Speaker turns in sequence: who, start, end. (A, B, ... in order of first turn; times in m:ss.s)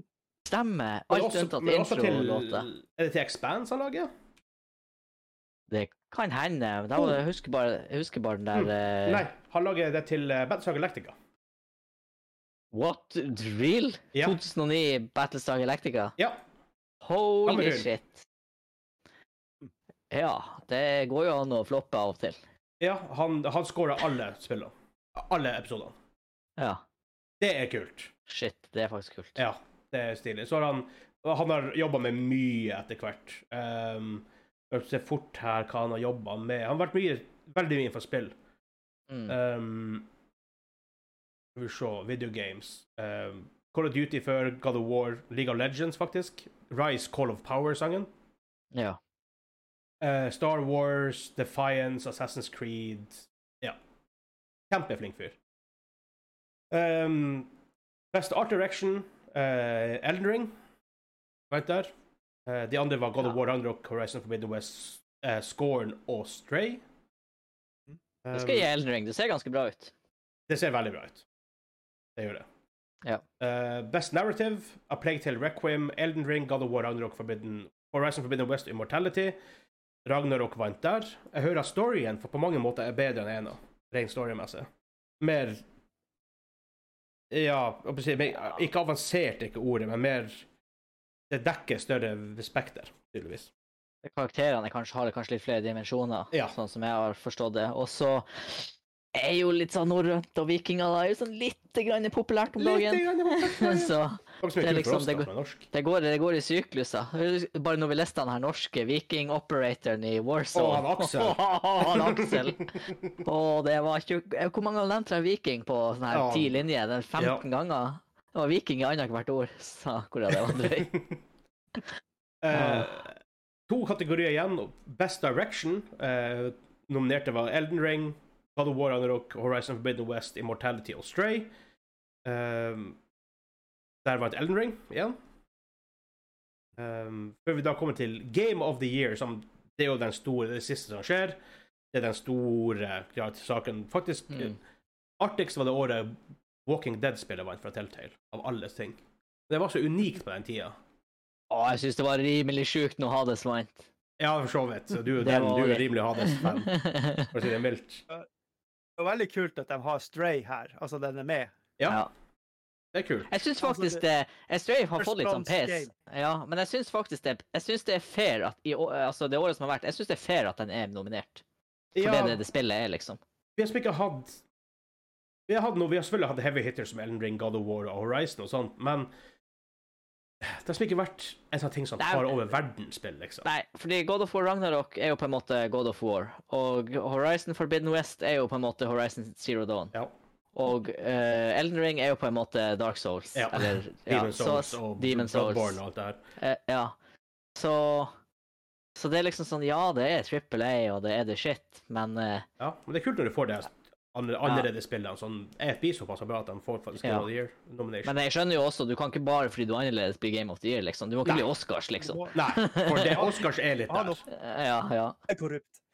0:00.5-0:02.7 A
0:01.1-0:04.1 B
0:05.7-0:09.3 A
0:08.5-0:11.2 B
0:12.7-0:16.2 A
0:16.2-0:16.4 B
0:17.0-0:18.2 A
0:17.5-0:17.9 B
0:20.1-0:22.4 A
0:22.8-0:26.0 B
0:26.6-0:26.8 A
0:27.4-0:28.1 B
0:28.3-0:29.4 A
0:29.4-0:38.3 B
0:39.3-0:40.1 B
0:41.6-0:48.1 B
0:48.7-0:49.0 A
0:50.0-0:53.8 B
0:54.7-0:55.4 B
0:56.7-0:57.5 B
0:58.1-1:00.5 B
1:01.5-1:01.9 B
1:02.5-1:06.8 B
1:08.2-1:08.7 B
1:08.3-1:09.9 A
1:10.5-1:11.2 B
1:12.2-1:12.5 B
1:13.4-1:19.4 B
1:20.1-1:24.7 B
1:25.2-1:25.6 B
1:27.3-1:30.4 B
1:31.3-1:33.5 B
1:34.0-2:01.0 A
1:42.6-1:45.7 B
1:50.5-1:53.1 B
1:56.1-1:56.5 B
1:57.2-1:57.4 B
2:00.5-2:01.2 B
2:02.4-2:03.2 B
2:02.5-2:02.9 A
2:03.7-2:11.5 B
2:12.2-2:13.0 B
2:14.0-2:15.2 B
2:16.8-2:21.4 B
2:21.9-2:24.6 B
2:25.2-2:30.8 B
2:31.5-2:33.9 A
2:34.2-2:38.0 B
2:35.2-2:37.3 A
2:39.0-2:41.6 C
2:41.8-2:42.0 B
2:42.9-2:43.3 B
2:43.3-2:51.4 A
2:43.6-2:44.0 C
2:45.0-2:45.9 C
2:52.0-2:52.4 B
2:52.0-2:53.2 A
2:53.6-2:54.4 B
2:55.5-2:59.1 B
3:00.4-3:03.5 B
3:02.0-3:02.3 A
3:03.4-3:09.9 A
3:10.5-3:15.8 A
3:13.4-3:16.2 B
3:16.4-3:17.0 A
3:17.6-3:18.1 A
3:19.0-3:22.5 A
3:22.6-3:28.1 B
3:28.0-3:33.3 A
3:32.0-3:32.3 C
3:32.3-3:34.3 B
3:33.9-3:34.2 C
3:34.3-3:35.2 A
3:35.3-3:35.8 C